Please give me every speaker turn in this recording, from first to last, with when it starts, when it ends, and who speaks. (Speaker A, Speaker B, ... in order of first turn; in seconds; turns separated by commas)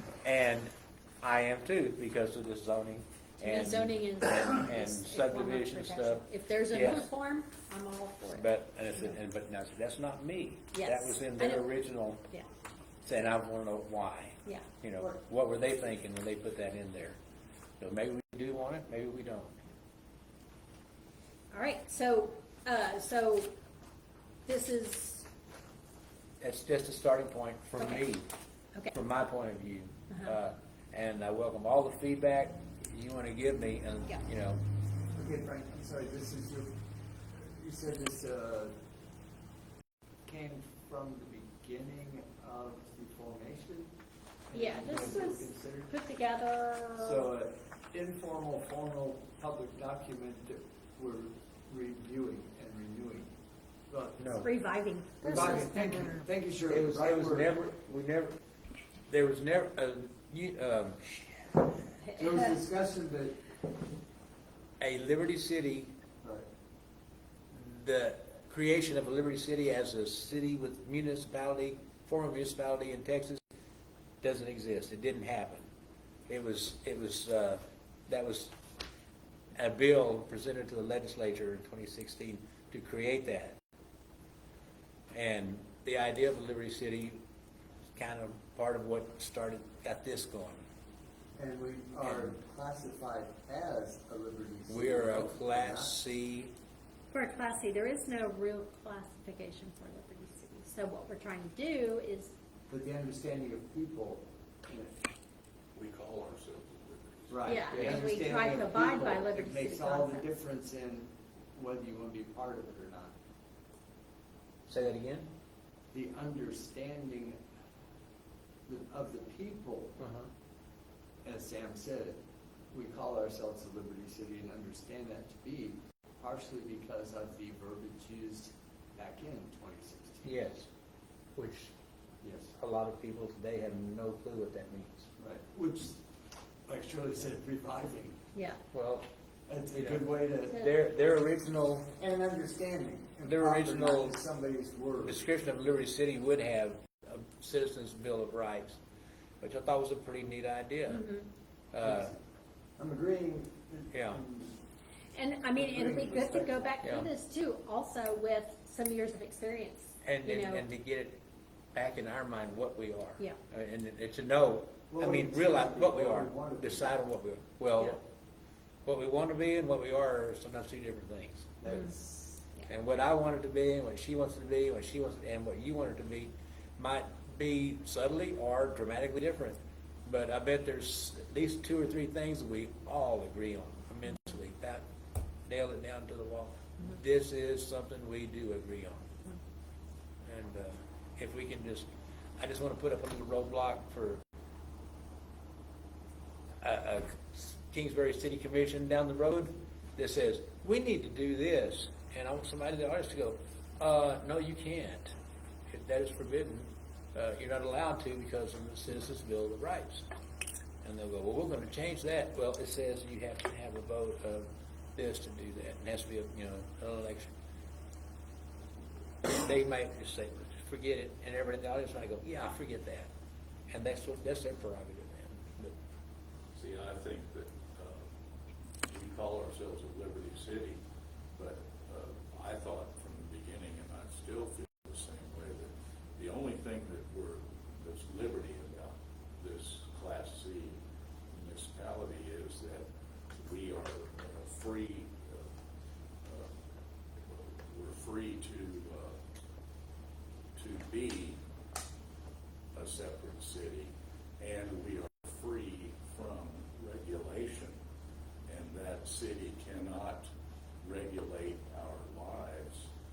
Speaker A: 0.2-7.1, Speaker B: 3.4-8.5, Speaker A: 8.3-12.2, Speaker B: 10.7-11.7, Speaker A: 13.0-17.2, Speaker A: 17.8-19.6, Speaker B: 21.5-23.5, Speaker B: 24.4-25.3, Speaker A: 26.4-28.3, Speaker A: 28.9-34.6, Speaker B: 30.1-30.3, Speaker C: 35.1-36.8, Speaker C: 37.4-38.7, Speaker C: 40.2-43.9, Speaker C: 44.5-46.0, Speaker B: 44.5-47.3, Speaker C: 47.0-53.3, Speaker C: 53.9-54.2, Speaker A: 54.2-54.5, Speaker B: 54.4-56.2, Speaker C: 55.2-57.6, Speaker A: 55.2-55.6, Speaker A: 56.7-58.4, Speaker A: 59.1-61.2, Speaker B: 62.0-62.5, Speaker C: 62.1-63.4, Speaker A: 64.8-65.9, Speaker C: 66.2-66.5, Speaker A: 67.5-73.4, Speaker A: 74.2-75.7, Speaker A: 76.3-78.5, Speaker A: 79.5-83.6, Speaker A: 85.1-87.2, Speaker A: 87.9-90.6, Speaker C: 91.3-96.0, Speaker A: 92.0-92.3, Speaker A: 94.7-96.5, Speaker B: 97.1-102.3, Speaker C: 102.7-105.0, Speaker D: 105.7-107.7, Speaker C: 107.3-113.1, Speaker B: 107.4-110.2, Speaker A: 107.7-108.1, Speaker A: 114.7-115.3, Speaker C: 115.9-117.4, Speaker C: 118.7-120.0, Speaker A: 120.0-120.3, Speaker C: 121.2-122.2, Speaker C: 122.7-130.4, Speaker A: 130.2-130.7, Speaker A: 131.3-131.7, Speaker C: 132.2-132.5, Speaker A: 132.6-135.1, Speaker C: 135.2-136.0, Speaker C: 136.7-138.2, Speaker B: 138.3-138.6, Speaker A: 138.7-139.1, Speaker C: 139.5-140.6, Speaker A: 139.7-141.9, Speaker C: 141.9-145.2, Speaker A: 143.2-144.2, Speaker A: 145.0-148.8, Speaker A: 149.4-151.1, Speaker B: 150.9-151.3, Speaker A: 151.7-152.1, Speaker C: 151.8-152.2, Speaker C: 152.8-154.6, Speaker A: 153.9-154.2, Speaker B: 155.1-160.6, Speaker C: 155.6-156.7, Speaker A: 156.8-157.1, Speaker A: 160.0-161.2, Speaker A: 161.7-168.0, Speaker C: 164.9-166.9, Speaker A: 168.8-171.6, Speaker C: 171.6-172.4, Speaker A: 172.7-184.8, Speaker A: 185.5-189.2, Speaker A: 190.2-191.9, Speaker A: 192.4-194.2, Speaker A: 196.6-205.1, Speaker A: 205.7-210.1, Speaker A: 210.8-217.3, Speaker A: 219.2-223.1, Speaker A: 223.7-225.7, Speaker D: 226.5-228.1, Speaker D: 228.9-230.8, Speaker D: 231.3-240.8, Speaker D: 241.3-245.5, Speaker D: 246.2-246.5, Speaker D: 247.3-249.2, Speaker D: 250.6-251.4, Speaker D: 252.7-257.8, Speaker D: 258.5-260.3, Speaker D: 260.8-262.9